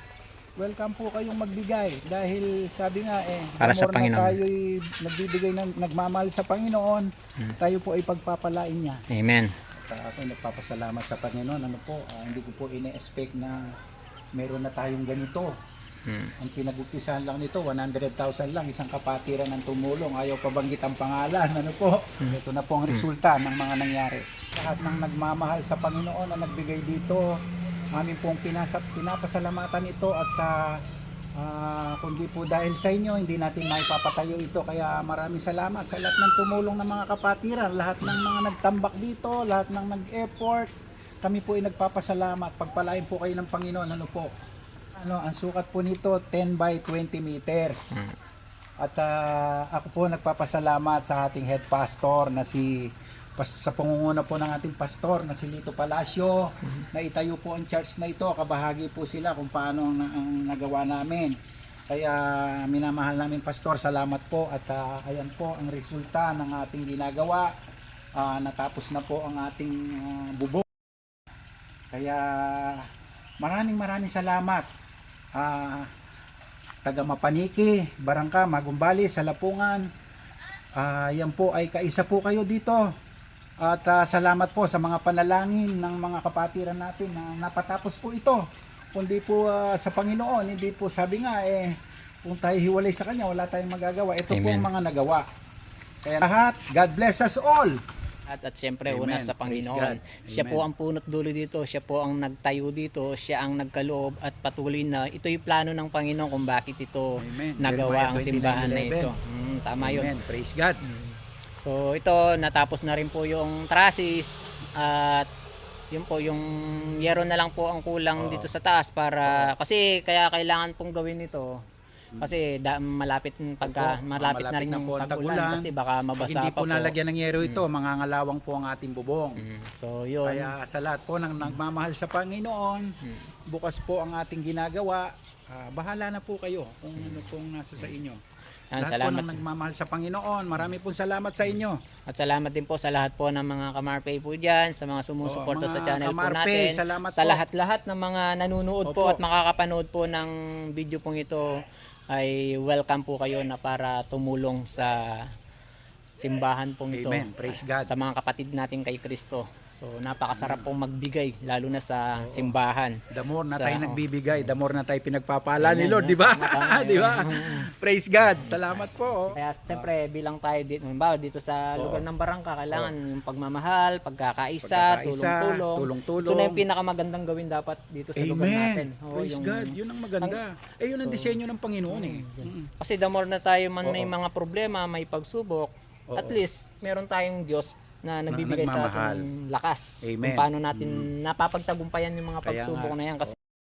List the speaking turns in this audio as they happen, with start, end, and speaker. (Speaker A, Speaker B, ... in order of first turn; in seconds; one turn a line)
Speaker A: 0.6-9.0
Speaker B: 3.6-4.4
Speaker B: 9.1-9.6
Speaker A: 9.7-13.7
Speaker A: 14.3-15.5
Speaker B: 16.1-16.3
Speaker A: 16.4-27.3
Speaker A: 27.9-30.8
Speaker A: 31.4-40.7
Speaker A: 41.2-44.3
Speaker A: 45.0-48.0
Speaker A: 48.8-61.3
Speaker A: 61.9-67.5
Speaker A: 68.2-70.7
Speaker A: 71.9-72.9
Speaker A: 73.4-74.7
Speaker A: 75.4-75.9
Speaker A: 76.8-79.9
Speaker A: 80.8-82.8
Speaker A: 83.6-88.4
Speaker A: 88.9-91.7
Speaker A: 92.2-95.2
Speaker B: 94.3-94.7
Speaker A: 96.0-97.8
Speaker B: 98.3-110.1
Speaker A: 98.9-100.6
Speaker A: 107.2-109.1
Speaker A: 109.8-110.8
Speaker B: 110.8-115.3
Speaker B: 115.9-121.6
Speaker A: 118.2-118.5
Speaker A: 119.2-119.5
Speaker B: 122.2-127.6
Speaker A: 123.6-129.4
Speaker B: 129.4-130.5
Speaker A: 130.2-132.9
Speaker B: 133.0-133.3
Speaker A: 133.5-138.2
Speaker B: 137.0-137.9
Speaker B: 138.7-139.4
Speaker A: 138.8-141.8
Speaker B: 141.4-151.4
Speaker A: 145.2-147.4
Speaker A: 148.8-149.2
Speaker B: 152.1-155.3
Speaker B: 156.1-164.5
Speaker A: 156.9-157.9
Speaker A: 160.3-160.7
Speaker A: 162.2-162.5
Speaker A: 163.1-169.9
Speaker B: 165.6-167.7
Speaker B: 168.2-180.4
Speaker A: 171.8-172.0
Speaker A: 174.6-176.6
Speaker A: 178.2-182.7
Speaker B: 181.0-181.4
Speaker B: 181.9-193.3
Speaker A: 183.8-184.1
Speaker A: 186.1-186.4
Speaker A: 188.3-189.3
Speaker A: 190.0-191.1
Speaker A: 192.4-193.3